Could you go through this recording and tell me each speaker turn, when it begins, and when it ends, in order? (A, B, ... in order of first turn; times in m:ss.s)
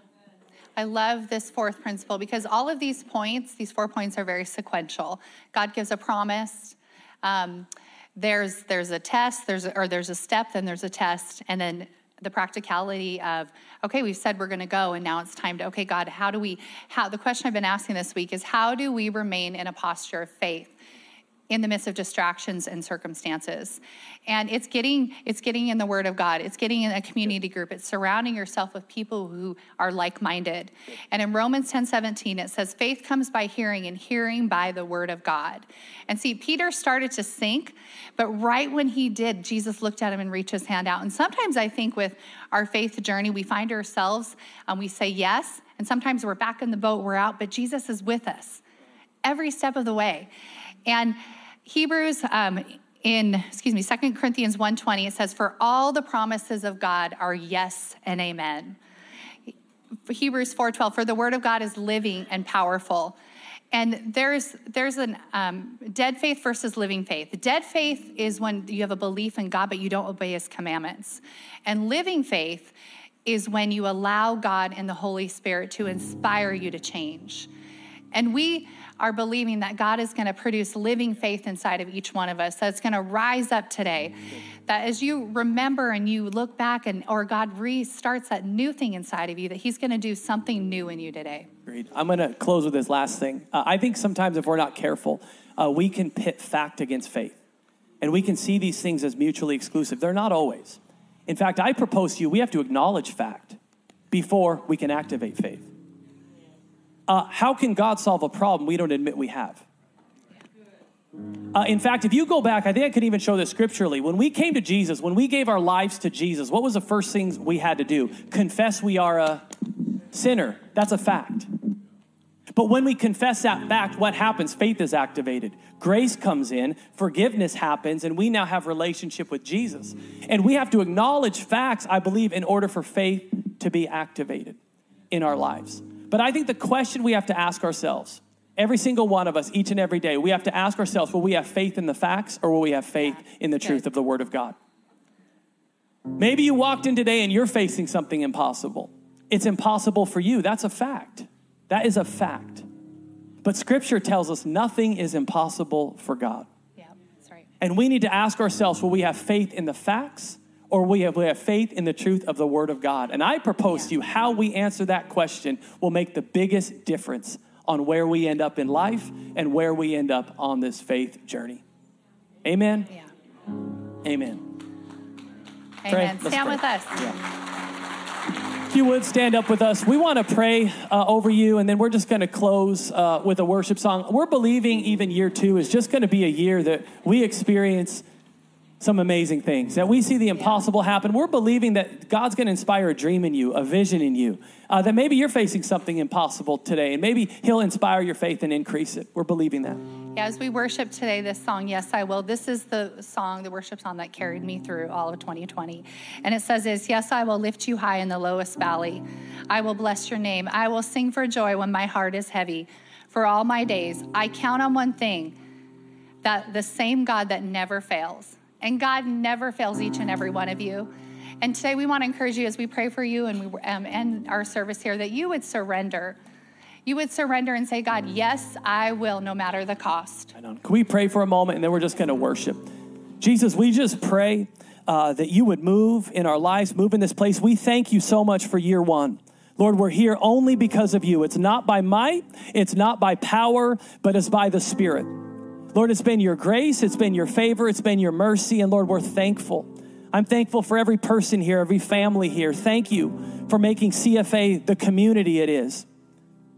0:00.8-0:20.8 A
0:21.5-0:48.6 A
0:49.2-0:50.3 A
0:50.9-0:58.8 A
1:00.1-1:03.2 A
1:03.7-1:17.5 A
1:18.1-1:31.5 A
1:31.7-1:37.4 B
1:38.0-1:43.6 B
1:44.1-1:45.7 B
1:47.1-1:49.7 B
1:51.5-1:59.5 B
2:00.1-2:01.5 B
2:02.5-2:14.6 B
2:15.1-2:24.6 B
2:23.0-2:23.8 A
2:26.2-2:32.7 B
2:33.4-2:36.5 B
2:36.8-2:37.5 A
2:37.6-2:51.6 B
2:52.4-2:52.9 B
2:54.0-2:54.5 B
2:55.8-2:57.0 A
2:55.9-2:57.2 B
2:58.6-3:08.0 B
3:08.8-3:19.8 B
3:10.4-3:10.6 A
3:20.2-3:35.4 A
3:36.2-3:46.2 A
3:46.9-3:50.3 A
3:50.4-3:52.6 B
3:53.2-4:15.9 B